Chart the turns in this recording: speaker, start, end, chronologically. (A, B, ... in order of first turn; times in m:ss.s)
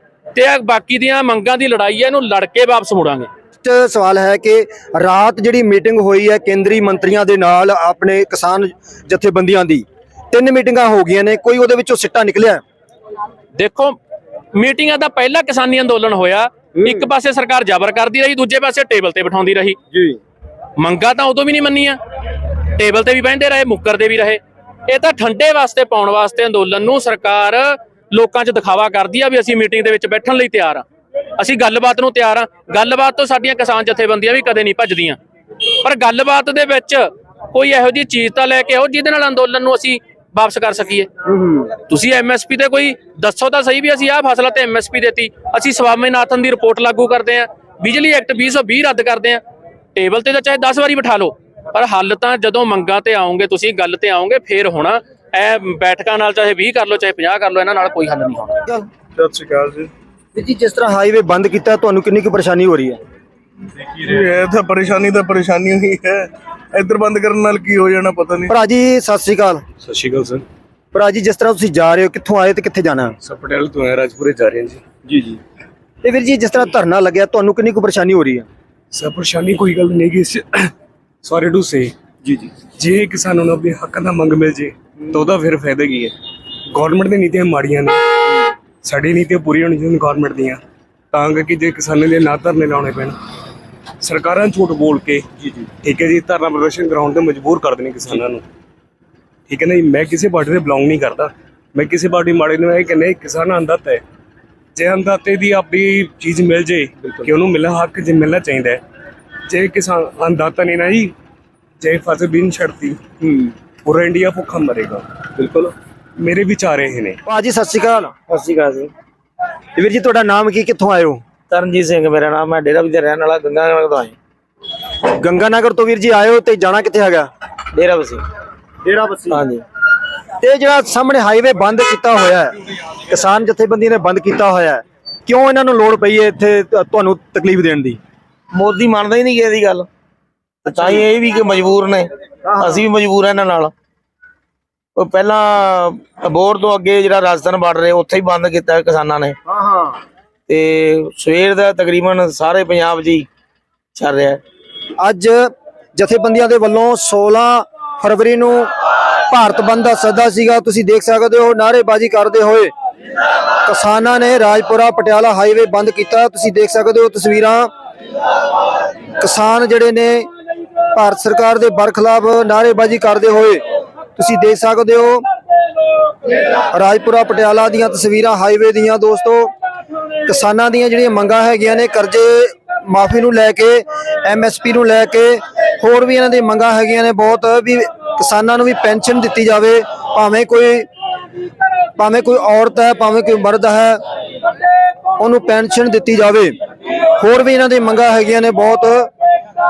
0:00.3-0:03.3 A
0:03.6-0:12.6 B
0:13.6-0:14.0 A
0:14.5-0:19.8 A
0:19.9-0:20.2 B
0:20.8-0:22.0 A
0:22.7-0:30.8 A
0:31.4-0:35.2 A
0:35.8-0:41.1 A
0:41.3-0:41.7 B
0:41.8-0:49.4 A
0:50.0-0:58.6 A
0:59.2-0:59.9 C
1:00.3-1:03.0 B
1:03.8-1:08.5 C
1:08.5-1:09.6 B
1:09.8-1:10.4 D
1:10.9-1:13.1 B
1:13.2-1:14.8 D
1:15.1-1:15.4 B
1:16.0-1:18.5 B
1:18.9-1:20.7 D
1:21.2-1:21.9 D
1:22.6-1:26.1 D
1:26.7-1:30.6 D
1:31.1-1:33.1 D
1:34.0-1:35.3 D
1:35.8-1:38.4 D
1:39.5-1:44.0 D
1:44.8-1:48.8 D
1:49.5-1:51.1 D
1:51.8-1:53.0 D
1:53.8-1:55.5 D
1:56.2-1:57.2 D
1:57.2-1:58.1 B
1:58.3-1:58.9 E
1:59.8-2:01.2 B
2:01.5-2:04.2 E
2:05.2-2:07.3 B
2:07.7-2:08.2 E
2:08.8-2:09.4 B
2:09.3-2:09.6 E
2:10.4-2:12.5 B
2:13.0-2:18.0 B
2:18.5-2:19.9 E
2:20.6-2:23.7 E
2:22.4-2:22.8 B
2:25.0-2:29.4 E
2:29.5-2:30.0 B
2:30.5-2:33.3 E
2:33.9-2:34.4 E
2:35.0-2:38.7 B
2:39.3-2:42.7 B
2:43.6-2:47.7 B
2:49.2-2:50.3 B
2:50.9-2:53.6 B
2:54.2-2:55.2 B
2:56.7-2:59.5 B
3:00.2-3:10.9 B
3:12.0-3:14.0 B
3:15.2-3:16.5 B
3:17.2-3:19.1 B